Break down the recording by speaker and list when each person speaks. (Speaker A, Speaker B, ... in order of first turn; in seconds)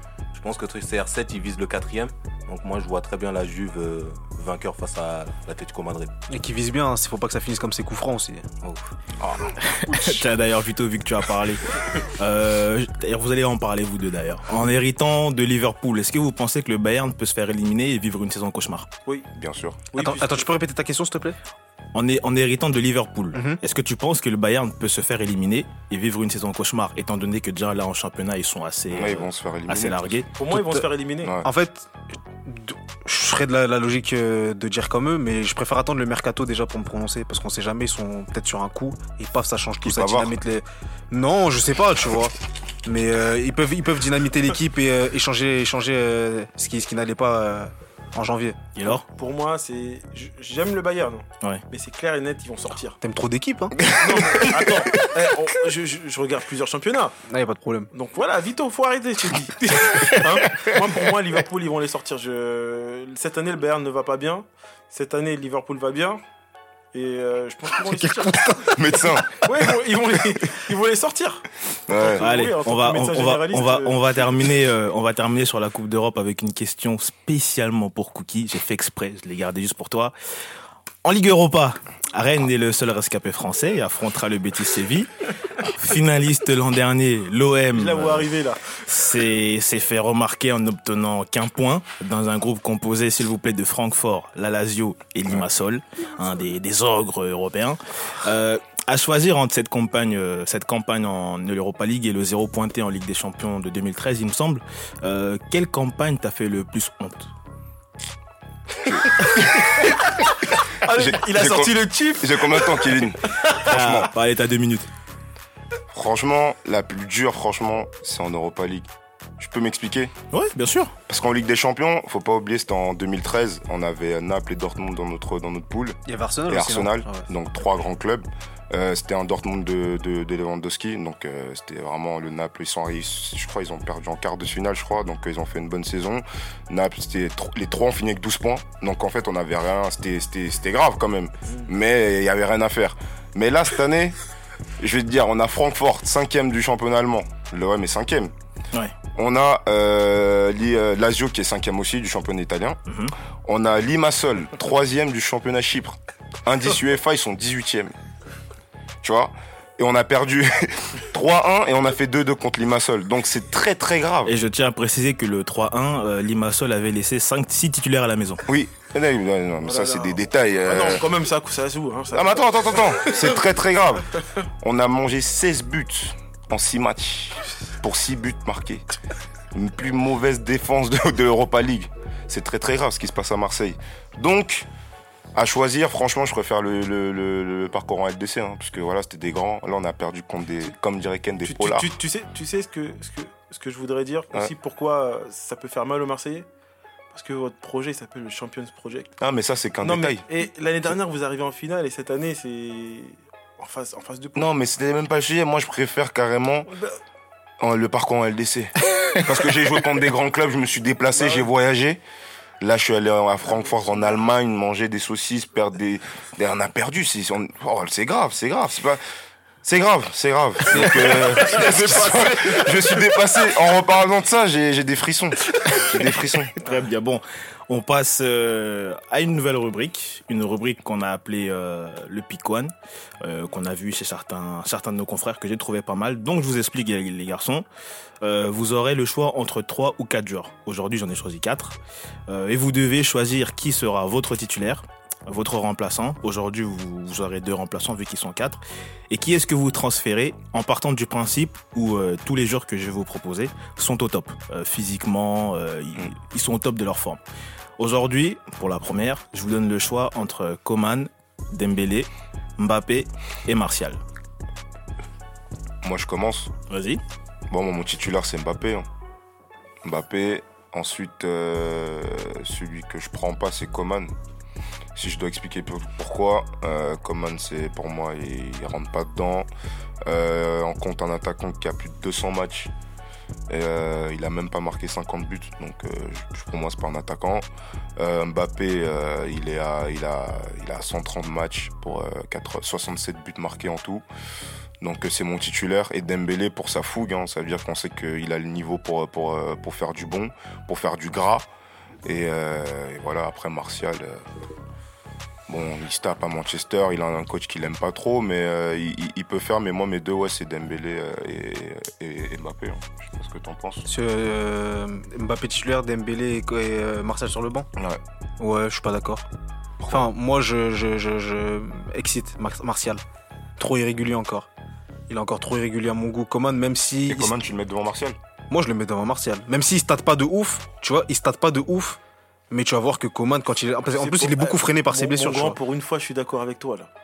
Speaker A: 0.3-6.1
Speaker B: 6.3-8.5, 20.0-21.4, 23.3-23.6, 30.5-30.8, 31.4-31.9, 32.4-42.3, 42.9-48.7, 53.0-53.9, 57.3-57.9, 67.8-69.1, 126.1-127.3, 313.9-317.7, 318.4-319.2, 319.9-323.0, 323.6-324.5, 325.1-327.3, 328.5-332.0, 332.5-335.6
Speaker C: 9.5-18.9, 21.9-30.3, 48.8-49.1, 72.2-80.1, 81.0-88.3, 88.9-107.3, 113.6-114.9, 120.3-120.9, 152.9-153.1, 164.2-168.4, 226.6-232.7, 233.2-237.7, 238.2-241.8, 242.3-257.2, 257.8-264.0, 266.7-267.0
Speaker D: 19.4-19.8, 28.9-30.2, 31.2-31.5, 39.8-40.3, 53.9-54.4, 68.7-69.5, 71.9-72.3, 108.8-110.1, 110.9-114.1, 115.9-120.1, 121.1-144.2, 144.8-148.3, 149.2-152.8, 153.4-157.9, 159.0-164.3, 168.5-171.1, 172.1-178.8, 179.5-184.7, 185.3-192.0, 199.2-200.3, 204.4-206.7, 207.6-212.0, 212.6-219.0, 219.6-226.5, 265.8-266.5, 267.5-268.9, 269.8-274.1, 274.9-279.5, 280.1-282.7, 283.5-287.4, 288.0-294.0, 294.8-301.5, 302.1-304.3, 305.5-313.9, 319.8-320.1, 327.1-328.2
Speaker E: 19.9-20.5, 30.4-31.4, 49.0-53.0, 53.9-57.1, 57.9-66.2, 66.9-68.7, 69.4-74.5, 87.7-88.7, 109.8-113.6, 169.6-173.1, 191.4-196.5, 197.1-199.1, 199.8-204.5, 206.7-207.0, 211.1-211.5, 220.7-223.0, 333.9-336.9